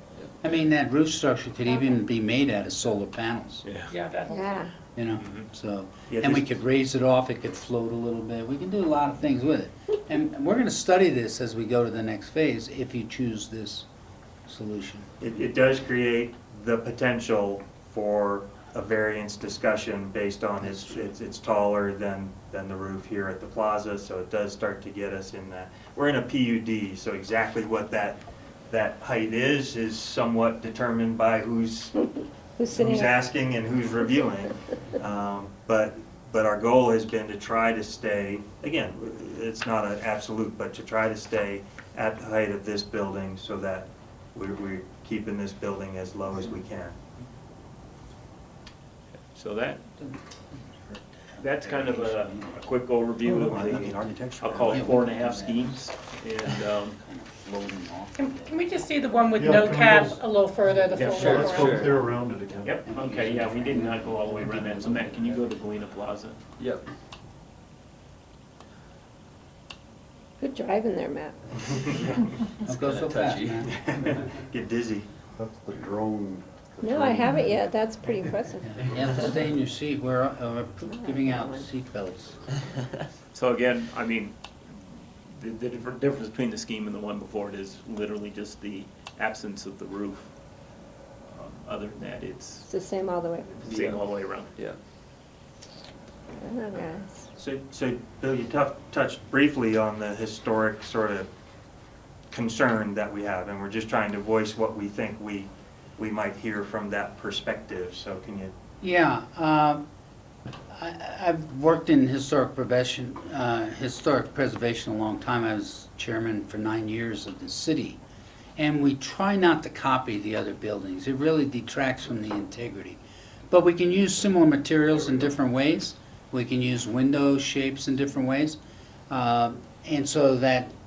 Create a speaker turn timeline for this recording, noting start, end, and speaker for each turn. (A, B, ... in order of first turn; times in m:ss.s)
0:00.4-0:03.7 A
0:03.6-0:03.9 B
0:03.9-0:04.6 C
0:04.3-0:04.7 D
0:05.0-0:13.9 A
0:05.2-0:05.5 B
0:06.1-0:06.5 E
0:14.5-0:15.1 A
0:15.2-0:32.0 E
0:20.6-0:21.1 A
0:32.6-0:33.1 D
0:32.7-0:47.0 E
0:49.3-0:49.8 B
0:50.9-0:52.6 A
0:51.4-0:57.0 B
0:53.2-0:55.1 E
0:54.7-0:55.8 A
0:56.9-0:58.6 A
0:58.2-1:02.0 C
0:59.3-1:02.8 F
1:01.0-1:02.0 G
1:02.6-1:06.4 B
1:02.9-1:05.4 A
1:06.6-1:06.8 G
1:10.4-1:11.4 D
1:12.6-1:13.7 A
1:12.7-1:13.7 G
1:13.7-1:15.1 E
1:15.4-1:17.7 F
1:16.8-1:19.3 D
1:18.7-1:22.4 A
1:20.9-1:21.7 D
1:23.3-1:24.4 B
1:25.3-1:30.3 B
1:31.2-1:32.7 B
1:32.7-1:33.7 D
1:33.6-1:34.5 B
1:33.7-1:34.0 G
1:36.4-1:37.1 D
1:37.4-1:41.3 E
1:42.3-1:48.5 E
1:48.8-1:49.8 A
1:50.7-1:58.0 A
1:58.6-2:03.0 A
2:03.5-2:08.6 A
2:09.1-2:10.7 A